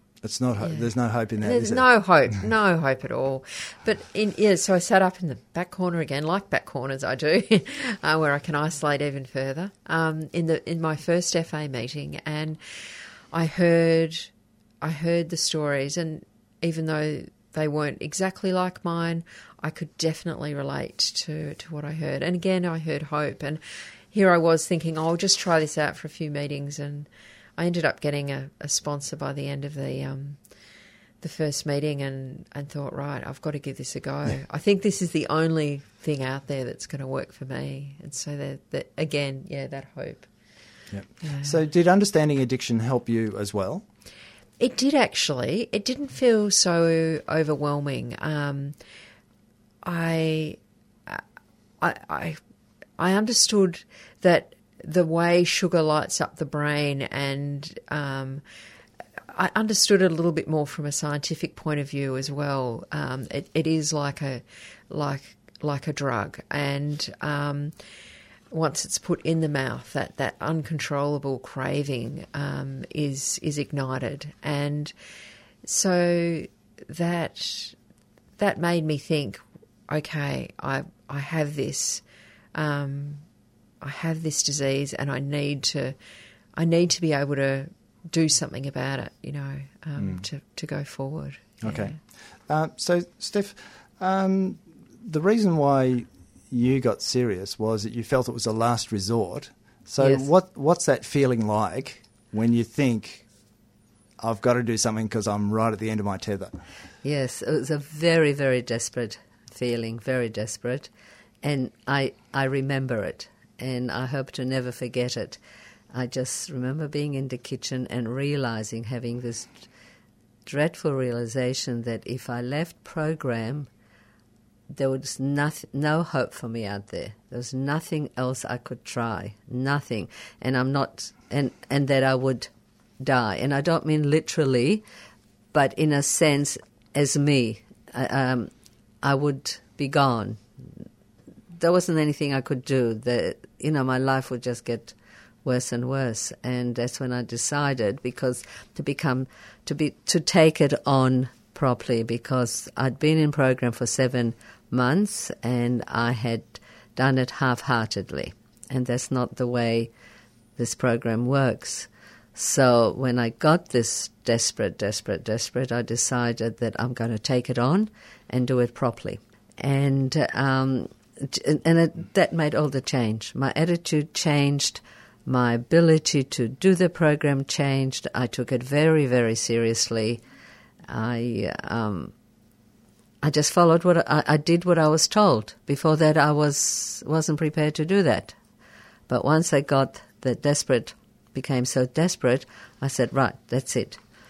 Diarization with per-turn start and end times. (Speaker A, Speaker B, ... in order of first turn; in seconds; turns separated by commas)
Speaker A: 0.2-1.9, Speaker B: 0.6-12.6, Speaker B: 13.3-14.3, Speaker B: 14.8-23.6, Speaker B: 24.1-30.4, Speaker B: 31.2-40.3, Speaker A: 40.9-43.9, Speaker B: 41.2-41.6, Speaker B: 44.6-48.8, Speaker B: 49.8-51.2, Speaker B: 51.8-52.4, Speaker B: 53.0-58.4, Speaker B: 59.3-67.7, Speaker B: 68.5-74.9, Speaker B: 75.6-77.7, Speaker B: 78.4-82.0, Speaker B: 82.5-83.2, Speaker B: 83.8-86.0, Speaker B: 86.5-92.0, Speaker A: 90.0-90.2, Speaker A: 91.6-103.2, Speaker C: 100.0-100.3, Speaker A: 104.2-106.5, Speaker C: 107.0-110.9, Speaker C: 111.4-115.4, Speaker C: 115.9-119.7, Speaker C: 120.5-123.7, Speaker C: 124.7-132.5, Speaker C: 133.0-134.8, Speaker C: 135.5-138.5, Speaker C: 139.0-140.8, Speaker C: 141.6-159.9, Speaker C: 160.6-180.2, Speaker C: 180.9-182.1, Speaker C: 183.2-188.3, Speaker C: 189.1-194.0